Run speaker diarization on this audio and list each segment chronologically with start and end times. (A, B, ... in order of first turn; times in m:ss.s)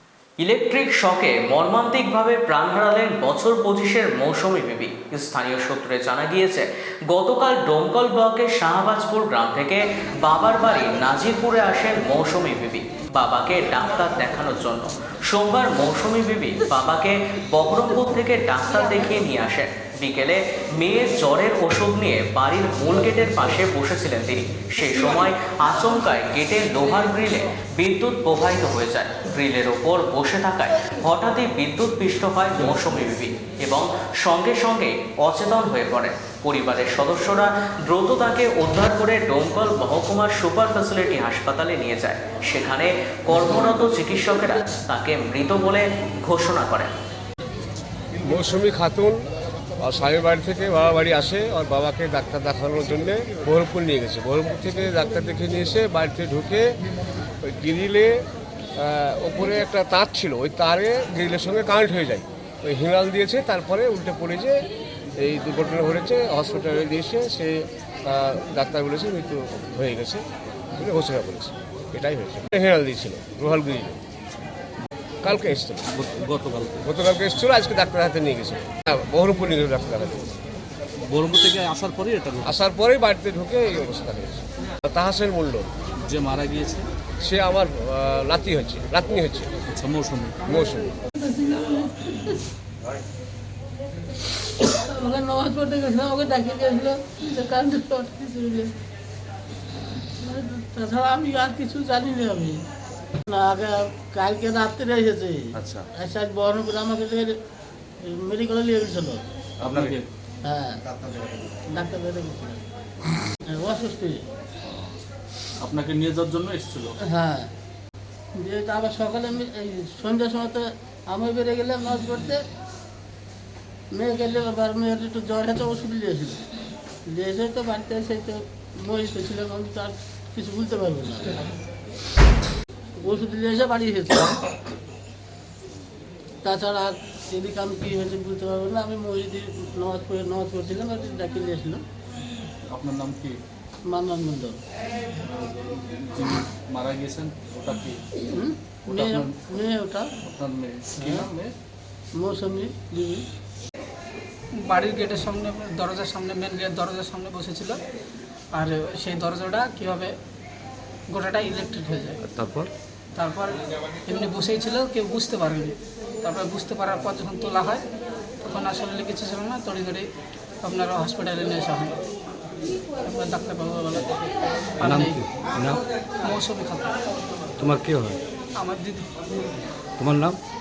0:00.4-0:46.9 A
0:48.2-0:49.3 B
0:49.8-1:14.0 B
1:15.2-1:15.9 B
1:15.9-1:16.8 C
1:16.8-1:20.3 B
1:21.1-1:22.6 C
1:22.4-1:25.7 B
1:26.0-1:26.9 C
1:27.2-1:29.5 B
1:29.7-1:30.4 C
1:30.4-1:31.0 B
1:31.1-1:32.4 D
1:34.6-1:38.7 D
1:40.2-1:42.6 D
1:43.3-1:47.4 D
1:45.6-1:45.9 C
1:48.0-1:49.2 D
1:49.6-1:50.1 C
1:50.4-1:52.6 D
1:53.5-1:54.2 D
1:54.6-1:55.0 C
1:55.6-1:56.9 C
1:57.1-1:57.5 D
1:58.4-2:02.4 D
2:03.9-2:06.5 D
2:07.1-2:11.5 D
2:13.0-2:14.4 D
2:16.4-2:21.8 D
2:22.7-2:23.4 C
2:23.9-2:24.6 D
2:25.3-2:28.2 C
2:28.3-2:30.1 D
2:28.9-2:29.4 C
2:30.2-2:31.5 C
2:32.2-2:33.3 D
2:34.6-2:37.8 E
2:38.5-2:40.2 E
2:41.1-2:42.2 E
2:42.3-2:42.7 F
2:43.2-2:47.8 E
2:48.4-2:50.1 E
2:50.6-2:52.0 E
2:53.0-2:54.1 E
2:54.8-2:55.4 E
2:54.8-2:55.8 F
2:56.2-2:57.0 E
2:57.6-2:58.2 F
2:58.6-2:59.1 E
3:00.0-3:00.4 F